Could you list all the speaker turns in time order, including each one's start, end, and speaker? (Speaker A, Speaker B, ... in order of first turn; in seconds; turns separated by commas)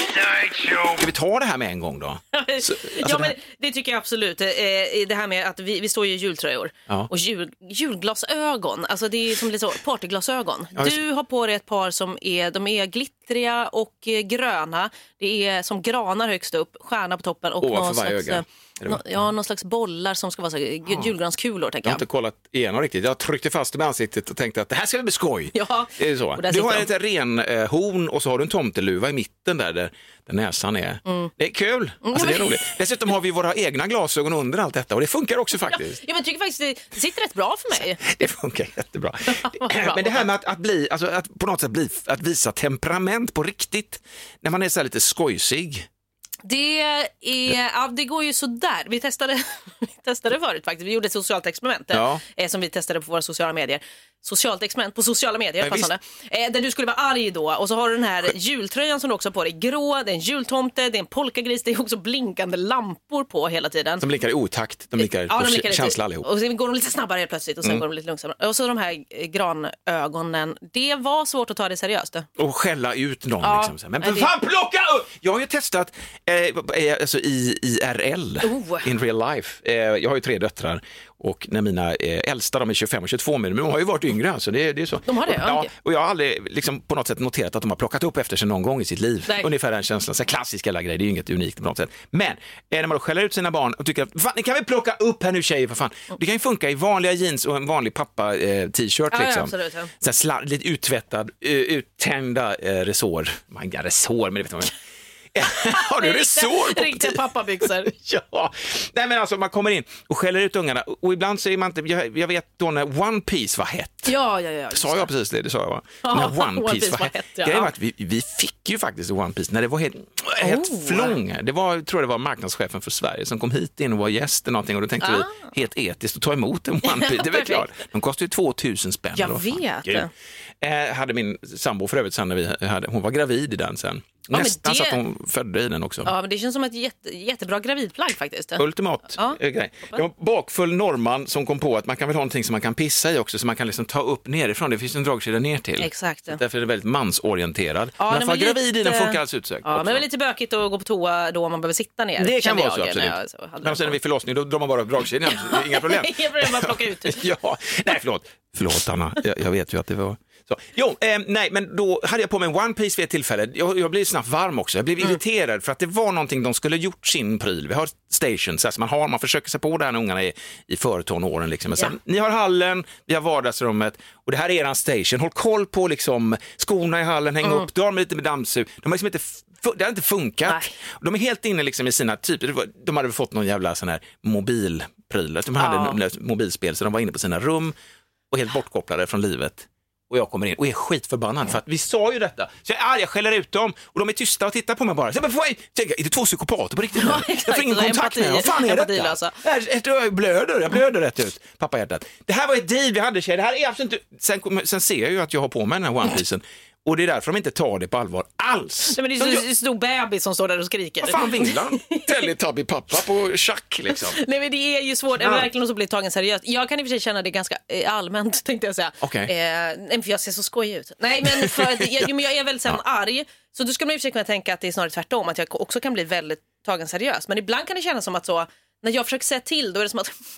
Speaker A: 0.5-3.3, Speaker B: 2.3-22.0, Speaker A: 17.6-19.2, Speaker A: 21.8-36.0, Speaker B: 25.5-26.9, Speaker B: 32.0-32.6, Speaker B: 35.7-38.0, Speaker A: 38.0-45.9, Speaker B: 39.3-40.2, Speaker B: 46.4-64.0, Speaker A: 51.9-52.2, Speaker A: 55.6-55.9, Speaker A: 64.0-66.2, Speaker B: 65.0-72.3, Speaker A: 72.4-104.7, Speaker B: 73.4-74.3, Speaker B: 78.4-78.9, Speaker B: 85.1-85.7, Speaker B: 99.1-99.9, Speaker A: 105.3-114.1, Speaker B: 105.7-107.9, Speaker B: 114.0-115.1, Speaker A: 114.7-130.1, Speaker B: 116.0-117.7, Speaker B: 120.4-121.2, Speaker B: 125.0-125.5, Speaker B: 126.8-127.6, Speaker B: 129.1-130.1, Speaker A: 130.6-136.1, Speaker B: 134.3-135.0, Speaker B: 136.0-138.6, Speaker A: 138.6-150.0, Speaker B: 139.1-140.0, Speaker B: 145.8-146.4, Speaker B: 148.0-154.0, Speaker A: 152.2-187.7, Speaker B: 155.2-157.2, Speaker B: 180.4-180.7, Speaker B: 185.6-186.0, Speaker A: 188.3-209.4, Speaker B: 196.9-199.3, Speaker B: 208.9-212.0, Speaker A: 211.0-214.2, Speaker B: 214.0-230.1, Speaker A: 215.2-215.5, Speaker A: 219.0-219.3